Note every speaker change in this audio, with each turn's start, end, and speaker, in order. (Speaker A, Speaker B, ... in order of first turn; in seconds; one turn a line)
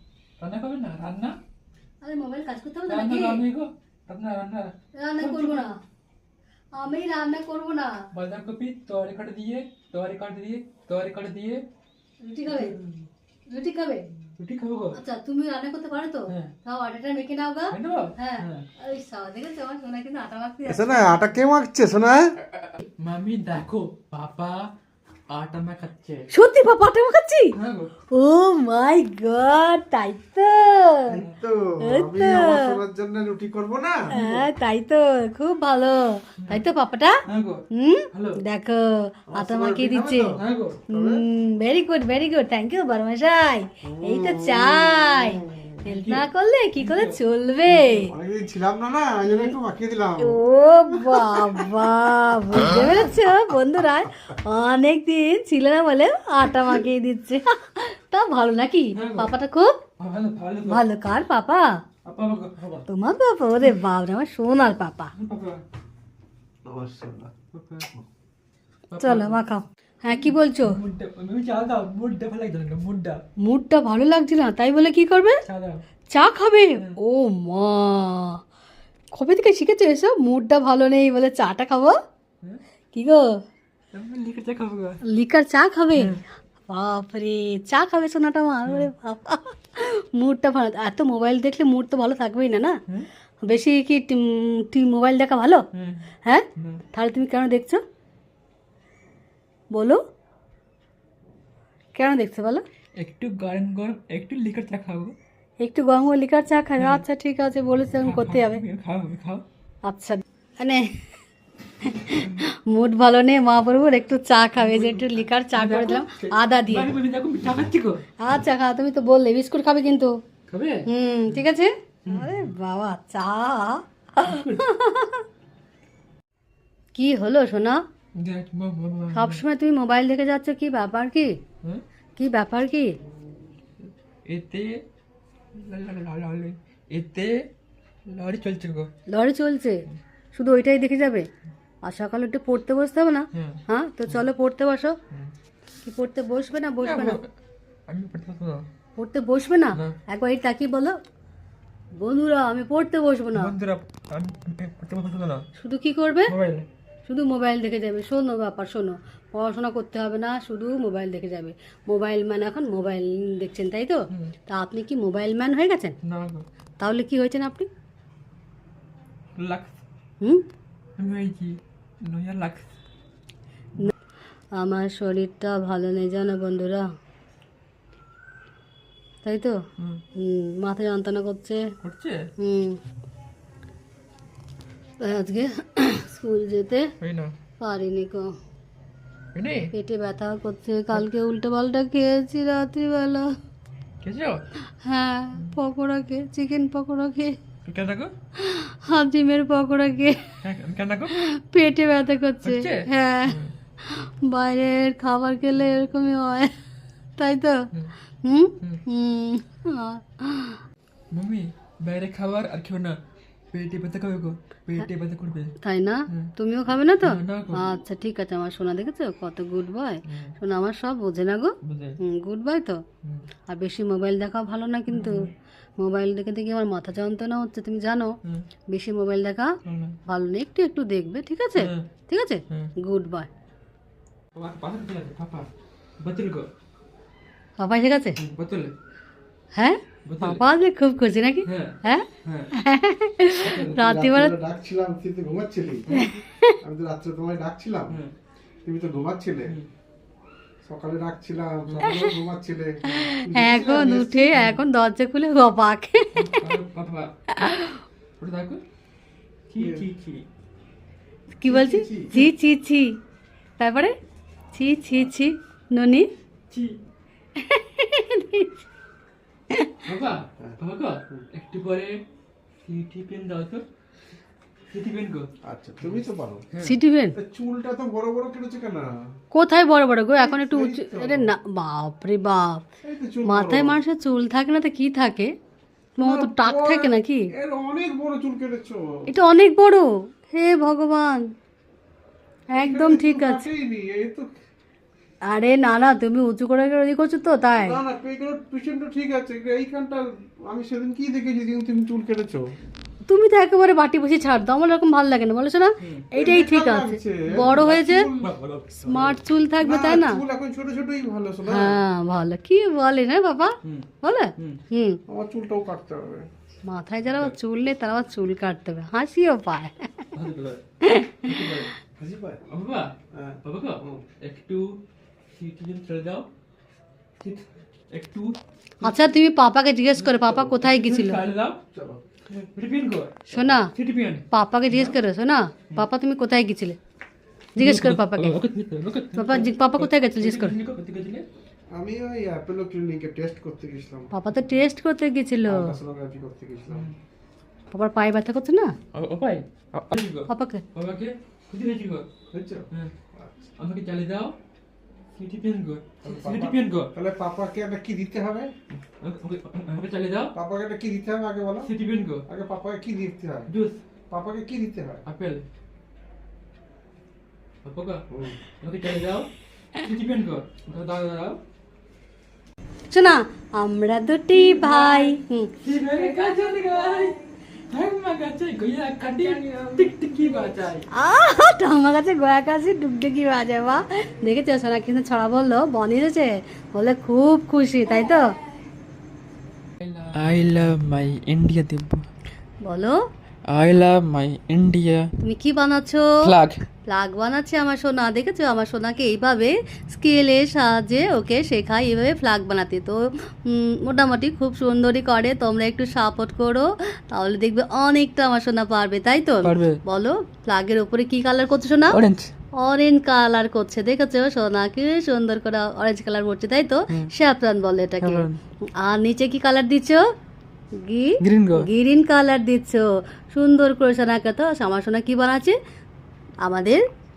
Speaker A: 0.4-1.4
Speaker B: 2.0-3.4
Speaker A: 2.9-5.7
Speaker B: 5.0-5.7
Speaker B: 6.7-8.0
Speaker A: 8.1-11.6
Speaker B: 12.2-12.8
Speaker A: 12.5-13.1
Speaker B: 13.5-14.1
Speaker A: 14.4-15.0
Speaker B: 14.9-21.3
Speaker A: 17.7-18.6
Speaker C: 20.7-22.3
Speaker A: 22.6-24.7
Speaker A: 25.3-26.3
Speaker B: 26.3-27.5
Speaker A: 27.6-27.9
Speaker B: 28.1-31.1
Speaker C: 31.1-34.0
Speaker B: 31.9-32.8
Speaker B: 34.1-37.2
Speaker A: 37.3-38.4
Speaker B: 37.7-40.3
Speaker C: 39.3-40.4
Speaker A: 40.4-40.8
Speaker C: 40.9-41.2
Speaker B: 40.9-48.1
Speaker C: 43.9-45.8
Speaker A: 45.8-47.2
Speaker A: 47.7-48.0
Speaker C: 48.1-51.8
Speaker B: 49.3-49.6
Speaker B: 50.2-59.7
Speaker A: 59.0-59.3
Speaker A: 60.0-60.9
Speaker B: 60.7-61.7
Speaker A: 62.0-62.9
Speaker B: 62.9-65.1
Speaker A: 65.2-65.6
Speaker C: 66.7-67.3
Speaker A: 67.5-67.9
Speaker A: 68.9-69.4
Speaker B: 69.0-70.8
Speaker A: 70.1-73.2
Speaker B: 73.4-75.4
Speaker A: 75.5-75.8
Speaker B: 76.1-78.4
Speaker B: 79.1-82.0
Speaker B: 82.9-83.2
Speaker A: 83.9-85.0
Speaker B: 85.1-86.2
Speaker B: 86.7-92.8
Speaker A: 88.7-88.9
Speaker B: 93.4-95.6
Speaker A: 95.8-96.1
Speaker B: 96.2-97.8
Speaker A: 96.6-96.8
Speaker B: 99.7-100.0
Speaker B: 102.0-102.6
Speaker A: 103.0-105.2
Speaker B: 105.6-108.6
Speaker A: 106.8-107.0
Speaker A: 108.0-109.4
Speaker B: 109.8-110.8
Speaker B: 111.8-116.9
Speaker A: 114.6-118.0
Speaker B: 118.2-120.1
Speaker A: 120.5-121.4
Speaker B: 120.9-125.2
Speaker A: 122.0-122.5
Speaker A: 124.2-124.6
Speaker B: 126.9-127.8
Speaker A: 128.2-129.4
Speaker B: 129.2-131.3
Speaker B: 132.2-133.0
Speaker A: 134.3-134.7
Speaker A: 135.6-137.4
Speaker A: 138.1-138.9
Speaker B: 139.1-139.8
Speaker B: 140.3-141.3
Speaker B: 141.8-144.9
Speaker A: 143.3-144.2
Speaker B: 145.8-147.2
Speaker A: 146.8-147.3
Speaker A: 147.9-148.7
Speaker B: 149.0-150.9
Speaker B: 152.0-153.5
Speaker A: 153.3-155.4
Speaker B: 155.6-156.3
Speaker A: 156.3-156.7
Speaker B: 157.1-165.9
Speaker A: 166.1-166.4
Speaker B: 166.8-167.7
Speaker A: 169.4-169.8
Speaker A: 171.0-172.7
Speaker B: 174.6-176.8
Speaker B: 179.2-179.6
Speaker B: 180.2-181.6
Speaker A: 181.8-182.3
Speaker B: 182.4-182.8
Speaker B: 185.0-186.8
Speaker A: 187.0-187.3
Speaker B: 187.6-188.3
Speaker A: 189.3-189.7
Speaker B: 189.7-193.3
Speaker A: 194.0-194.4
Speaker B: 194.8-197.4
Speaker A: 197.7-198.1
Speaker B: 198.4-200.2
Speaker A: 200.4-201.2
Speaker B: 201.1-206.5
Speaker A: 202.4-203.5
Speaker B: 207.2-207.6
Speaker B: 208.2-210.6
Speaker A: 211.1-213.0
Speaker A: 213.5-215.5
Speaker B: 215.6-222.8
Speaker A: 217.0-217.6
Speaker A: 220.1-220.3
Speaker A: 221.6-222.0
Speaker B: 223.5-225.3
Speaker A: 224.9-225.3
Speaker B: 225.8-228.1
Speaker B: 228.7-229.5
Speaker A: 229.7-230.0
Speaker B: 230.1-233.3
Speaker A: 231.6-231.8
Speaker A: 234.3-235.5
Speaker A: 236.0-236.5
Speaker B: 237.6-238.2
Speaker A: 238.2-238.7
Speaker B: 239.6-242.1
Speaker A: 240.1-240.4
Speaker A: 241.5-242.5
Speaker B: 242.6-244.3
Speaker A: 243.4-243.8
Speaker C: 243.7-245.9
Speaker A: 245.9-246.2
Speaker B: 245.9-246.6
Speaker C: 246.6-248.0
Speaker C: 248.6-249.6
Speaker C: 250.6-254.6
Speaker A: 251.7-252.0
Speaker B: 251.8-252.1
Speaker B: 252.8-256.3
Speaker A: 256.2-257.1
Speaker B: 257.4-257.8
Speaker A: 258.2-258.6
Speaker A: 259.5-260.2
Speaker C: 259.6-259.9
Speaker B: 261.4-263.0
Speaker C: 261.4-262.3
Speaker B: 263.6-263.9
Speaker B: 264.5-266.1
Speaker A: 266.5-266.8
Speaker B: 267.4-268.5
Speaker A: 269.9-272.0
Speaker A: 272.6-273.6
Speaker A: 274.7-275.3
Speaker C: 275.4-276.4
Speaker B: 276.6-277.1
Speaker C: 277.2-278.9
Speaker B: 279.3-282.6
Speaker C: 280.2-281.3
Speaker C: 282.8-283.8
Speaker B: 283.2-285.3
Speaker B: 286.0-287.3
Speaker C: 286.0-289.1
Speaker B: 289.1-291.2
Speaker B: 292.5-293.5
Speaker C: 292.6-294.3
Speaker B: 295.3-297.8
Speaker C: 297.6-302.4
Speaker B: 303.1-308.1
Speaker A: 305.8-306.1
Speaker C: 306.1-311.8
Speaker A: 308.2-309.1
Speaker B: 308.9-310.2
Speaker B: 311.5-315.0
Speaker A: 313.6-314.6
Speaker C: 315.1-316.3
Speaker B: 316.7-320.0
Speaker A: 320.1-320.6
Speaker B: 320.8-321.6
Speaker A: 321.2-321.7
Speaker C: 322.0-322.4
Speaker A: 322.5-322.9
Speaker C: 323.1-324.1
Speaker A: 323.4-324.8
Speaker A: 325.4-326.3
Speaker A: 327.2-329.1
Speaker B: 328.8-331.2
Speaker A: 330.0-331.6
Speaker C: 331.7-332.0
Speaker A: 332.3-334.9
Speaker B: 333.3-333.7
Speaker B: 334.3-336.8
Speaker B: 337.6-338.4
Speaker A: 337.6-341.2
Speaker B: 339.2-340.6
Speaker C: 341.7-344.1
Speaker B: 344.1-345.8
Speaker C: 345.5-346.9
Speaker A: 346.7-346.9
Speaker B: 347.7-348.7
Speaker A: 348.9-352.1
Speaker B: 350.3-350.6
Speaker C: 352.3-353.5
Speaker A: 353.6-354.3
Speaker A: 355.2-356.9
Speaker C: 356.0-358.5
Speaker A: 358.8-360.3
Speaker C: 360.3-361.7
Speaker A: 361.6-362.2
Speaker C: 362.3-363.5
Speaker A: 363.5-363.8
Speaker C: 364.1-365.0
Speaker A: 365.1-365.4
Speaker A: 367.6-371.4
Speaker C: 368.1-368.4
Speaker B: 372.9-375.5
Speaker A: 374.3-380.9
Speaker B: 380.9-388.3
Speaker A: 389.8-390.6
Speaker D: 390.2-392.0
Speaker B: 392.6-393.0
Speaker A: 393.5-394.2
Speaker D: 393.8-395.0
Speaker B: 395.2-396.1
Speaker A: 396.2-396.6
Speaker B: 396.9-412.0
Speaker A: 409.4-409.8
Speaker A: 411.9-412.3
Speaker B: 412.6-418.3
Speaker A: 418.0-418.4
Speaker B: 418.8-420.0
Speaker B: 420.8-425.6
Speaker A: 421.2-421.7
Speaker B: 426.4-426.8